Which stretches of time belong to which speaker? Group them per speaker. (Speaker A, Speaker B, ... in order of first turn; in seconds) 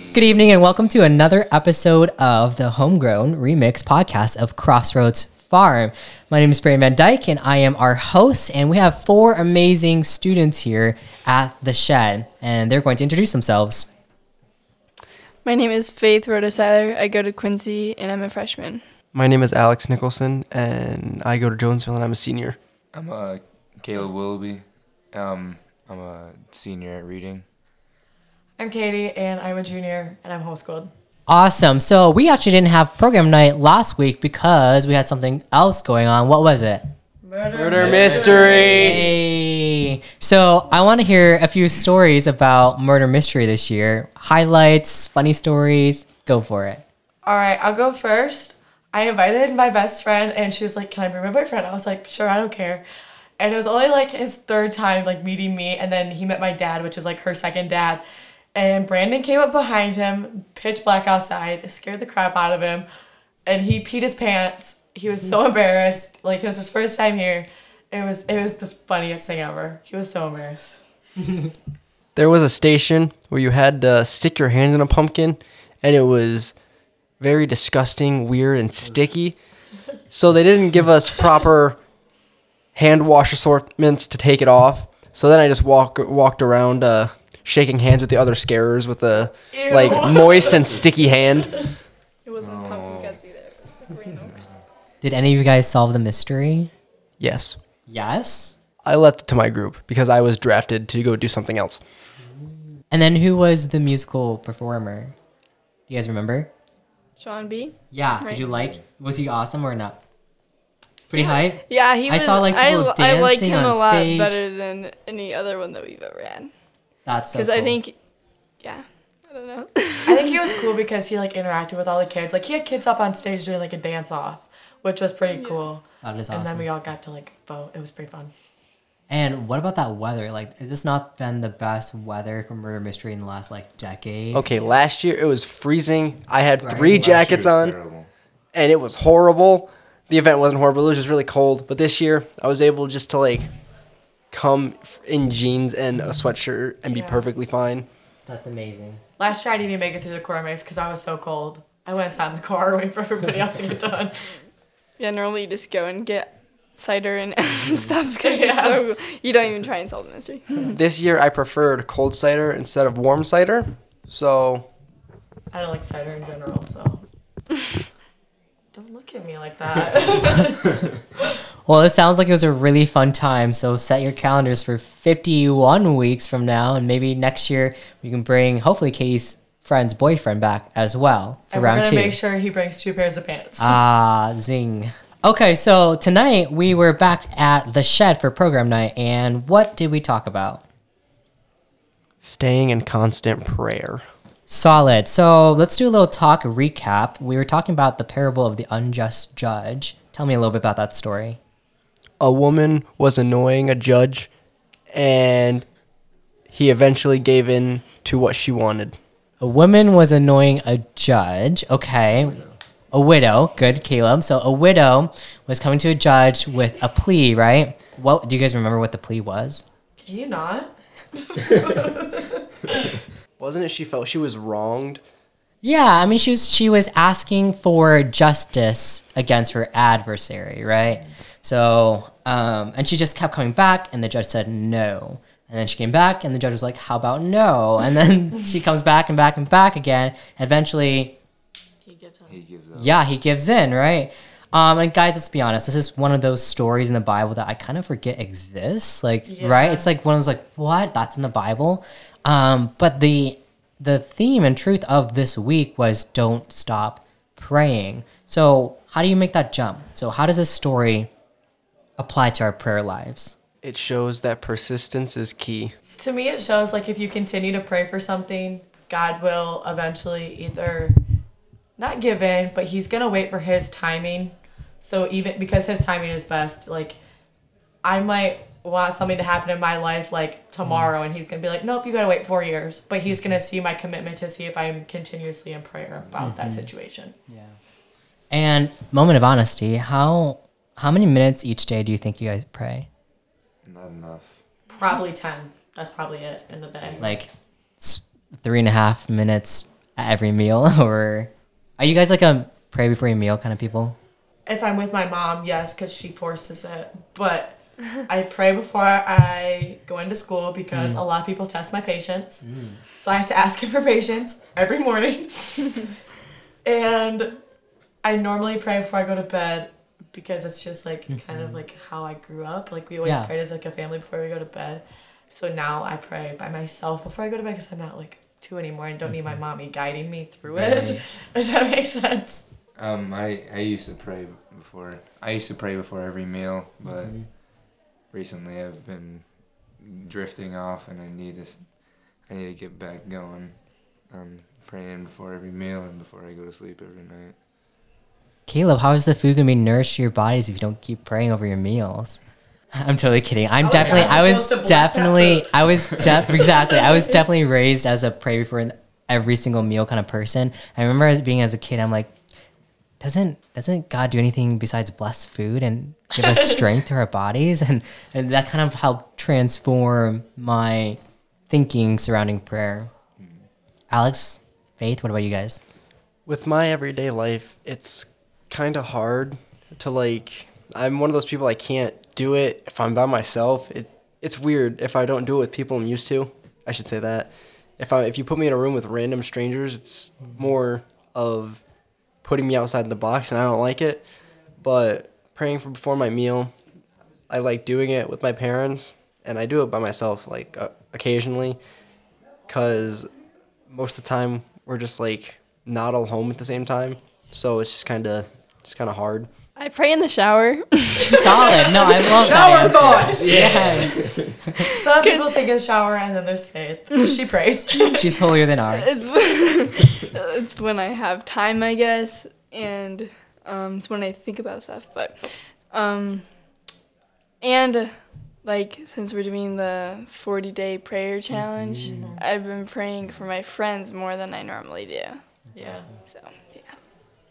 Speaker A: 0.1-13.9, 31.3-36.8, 37.8-46.8, 95.0-96.7, 97.9-98.5, 102.9-105.2, 105.9-106.5, 107.9-110.0, 111.1-114.4, 117.1-117.8, 126.0-126.7, 129.1-134.7, 136.6-137.1, 148.3-149.0, 171.7-182.2, 183.6-190.7, 194.5-201.4, 209.4-219.6, 225.6-241.2, 242.7-261.1, 262.0-263.4, 280.6-280.9, 286.2-286.7, 287.3-287.6, 288.3-292.9, 297.0-304.0, 310.7-311.0, 312.4-312.8, 321.1-321.6, 323.0-323.3, 330.5-331.1, 336.8-337.3, 348.5-352.2, 352.8-362.1, 363.0-372.9, 373.9-375.6, 411.1-413.8, 417.9-419.0, 431.3-432.2, 435.5-436.0
Speaker B: 15.4-18.8, 92.2-94.5, 107.2-108.6, 111.2-116.5, 117.3-118.0, 118.6-120.6, 125.3-125.7, 155.0-160.6, 409.6-412.4, 413.5-415.3, 418.7-426.3, 427.4-435.2, 436.1-436.8
Speaker C: 19.1-22.6, 37.5-39.0, 72.2-76.6, 77.2-79.5, 80.1-81.8, 82.7-91.6, 97.2-97.6, 98.8-101.8, 134.3-137.8, 138.5-143.5, 144.3-147.9, 160.7-164.7, 192.2-194.0, 202.2-204.3, 204.9-205.7, 206.5-209.0, 223.4-225.0, 263.6-265.8, 376.3-391.6, 392.2-394.1, 394.6-396.5, 397.3-401.6, 402.5-403.1, 403.7-409.3, 412.4-413.0
Speaker D: 22.9-27.5, 92.4-93.2, 94.2-94.6, 137.0-138.1, 242.3-243.0, 286.1-286.3, 293.6-294.4, 296.8-297.2, 332.8-337.4, 338.1-347.4, 373.2-373.5, 413.1-414.4
Speaker E: 28.6-30.9, 37.2-39.1, 47.2-52.9, 53.4-58.0, 58.5-62.9, 63.5-70.8, 89.5-91.0, 120.1-128.3, 146.9-147.3, 149.2-154.3, 158.2-158.8, 165.5-167.0, 168.7-170.8, 181.5-183.8, 220.0-222.9, 241.8-242.4, 249.3-249.9, 266.0-271.0, 271.8-277.0, 277.8-287.1, 294.7-297.1, 304.5-312.4, 313.0-315.9, 316.6-317.4, 318.0-332.4, 353.6-355.5, 356.2-357.0, 412.2-413.8, 414.6-418.2, 431.9-432.2, 435.6-435.9